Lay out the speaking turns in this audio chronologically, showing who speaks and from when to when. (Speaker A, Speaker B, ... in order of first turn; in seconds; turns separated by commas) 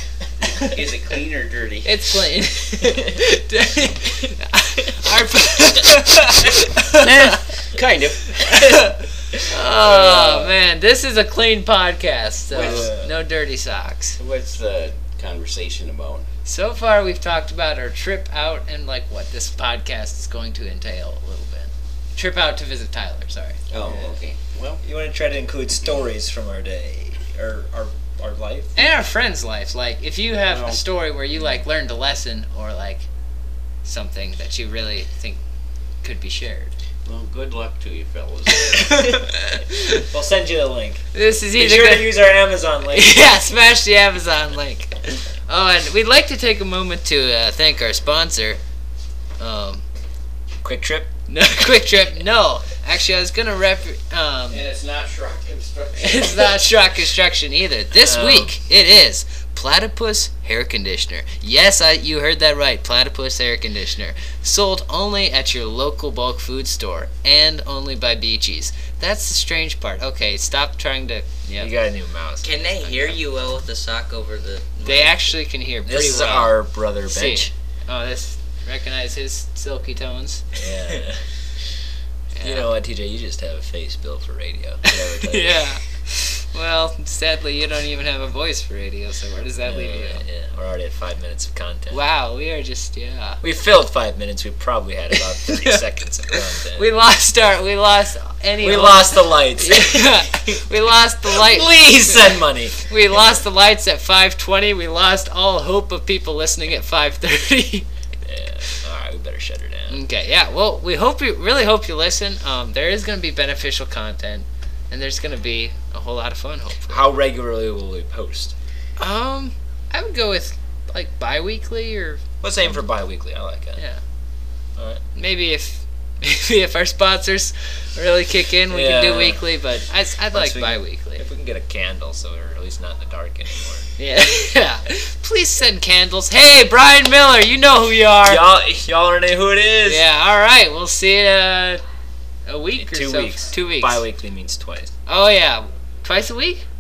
Speaker A: 0.6-2.0, Speaker B: 1.8-7.4, Speaker A: 7.0-8.6, Speaker B: 8.3-14.2, Speaker C: 9.3-10.6, Speaker A: 12.5-13.0, Speaker C: 12.5-13.1, Speaker A: 14.2-16.2, Speaker B: 16.5-24.1, Speaker A: 23.7-24.8, Speaker C: 24.8-28.9, Speaker B: 28.8-33.0, Speaker A: 30.5-30.8, Speaker B: 33.9-35.4, Speaker B: 36.0-36.7, Speaker A: 37.0-39.1, Speaker B: 38.7-40.0, Speaker C: 40.1-41.0, Speaker B: 41.1-42.2, Speaker C: 41.5-43.2, Speaker B: 42.9-48.6, Speaker B: 49.4-49.9, Speaker C: 50.6-51.1, Speaker B: 51.3-54.6, Speaker A: 54.5-56.6, Speaker B: 56.0-71.7, Speaker C: 58.0-58.5, Speaker C: 71.6-73.2, Speaker D: 72.4-75.1, Speaker B: 74.8-81.0, Speaker C: 75.9-77.5, Speaker C: 80.5-81.2, Speaker B: 82.3-82.7, Speaker C: 82.4-85.7, Speaker B: 84.9-90.2, Speaker C: 89.6-92.0, Speaker B: 91.9-93.4, Speaker C: 93.4-96.9, Speaker B: 95.4-95.8, Speaker B: 96.3-107.9, Speaker C: 98.6-100.6, Speaker C: 101.3-103.2, Speaker C: 108.3-110.0, Speaker B: 109.9-117.1, Speaker C: 116.9-118.5, Speaker B: 119.0-122.2, Speaker C: 122.4-123.8, Speaker B: 125.2-131.2, Speaker C: 128.7-129.4, Speaker C: 130.3-133.9, Speaker B: 134.0-138.4, Speaker C: 138.2-140.1, Speaker B: 139.8-141.8, Speaker B: 142.5-144.0, Speaker C: 142.8-144.9, Speaker B: 145.1-146.6